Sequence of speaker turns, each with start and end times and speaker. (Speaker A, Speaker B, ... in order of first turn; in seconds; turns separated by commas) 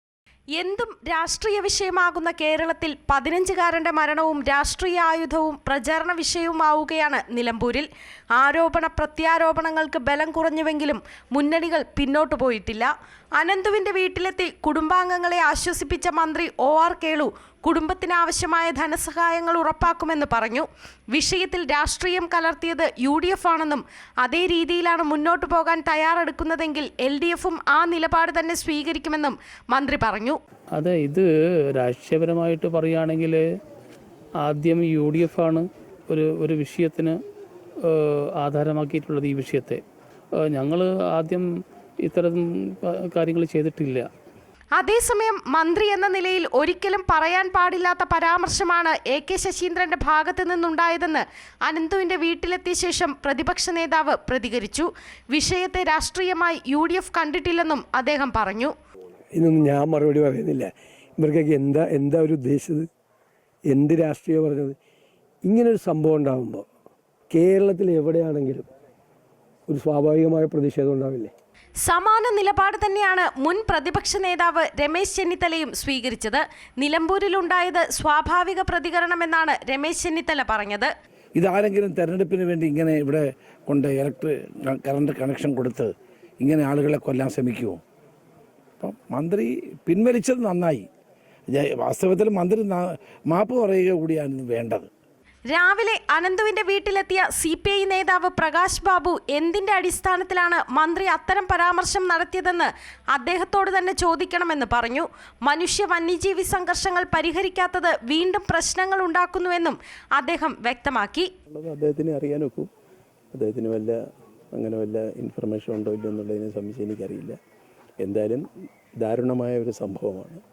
Speaker A: 0.6-30.4, Speaker B: 30.7-33.4, Speaker B: 34.4-37.2, Speaker B: 37.8-39.8, Speaker B: 40.4-41.5, Speaker B: 42.0-44.1, Speaker A: 44.8-58.7, Speaker C: 59.3-62.9, Speaker C: 63.7-64.8, Speaker C: 65.5-66.7, Speaker C: 67.3-68.7, Speaker C: 69.7-71.3, Speaker A: 71.9-80.9, Speaker D: 81.4-87.8, Speaker D: 88.8-90.9, Speaker D: 91.5-94.9, Speaker A: 95.5-111.3, Speaker E: 111.5-112.7, Speaker E: 113.3-114.0, Speaker E: 114.5-117.4, Speaker E: 118.0-118.4, Speaker E: 119.0-120.4